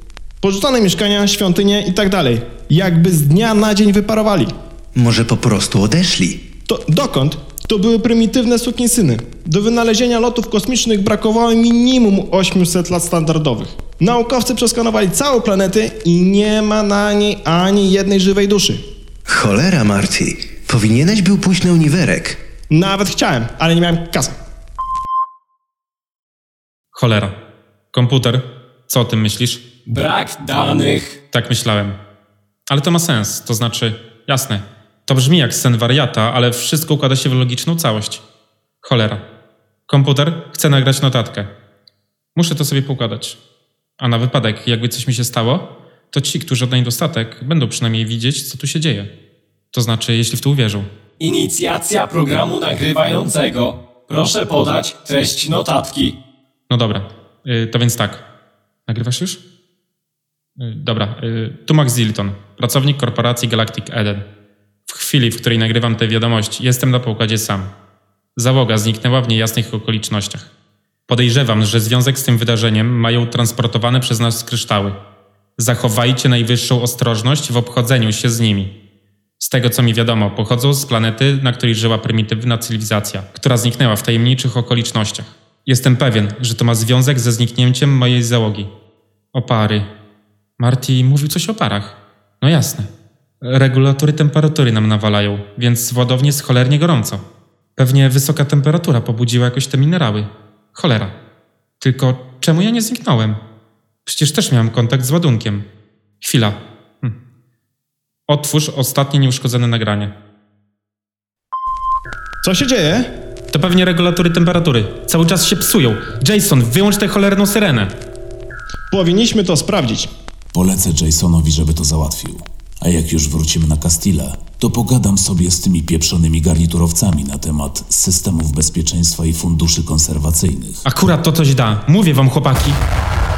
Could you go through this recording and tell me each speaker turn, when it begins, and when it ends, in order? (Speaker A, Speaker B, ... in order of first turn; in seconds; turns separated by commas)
Speaker A: 0.4-4.5, Speaker B: 5.0-6.5, Speaker A: 6.7-18.8, Speaker B: 19.3-22.4, Speaker A: 22.7-24.4, Speaker C: 26.9-27.4, Speaker C: 27.9-29.6, Speaker D: 29.9-31.2, Speaker C: 31.3-32.0, Speaker C: 32.7-38.2, Speaker C: 38.8-39.2, Speaker C: 39.9-41.5, Speaker C: 42.4-43.4, Speaker C: 44.0-49.1, Speaker C: 49.7-50.9, Speaker D: 51.2-56.2, Speaker C: 56.7-58.2, Speaker C: 58.9-59.4, Speaker C: 60.6-64.2, Speaker C: 64.9-67.7, Speaker C: 68.4-70.5, Speaker C: 71.1-75.0, Speaker C: 75.6-78.7, Speaker C: 79.4-88.7, Speaker C: 89.3-89.9, Speaker C: 90.6-92.9, Speaker C: 93.4-97.2, Speaker C: 97.8-101.1, Speaker C: 101.8-103.4, Speaker C: 104.1-105.7, Speaker C: 106.2-107.2, Speaker C: 108.3-110.1, Speaker A: 112.4-113.1, Speaker C: 113.5-118.0, Speaker A: 118.9-120.1, Speaker E: 120.5-130.8, Speaker C: 130.8-132.8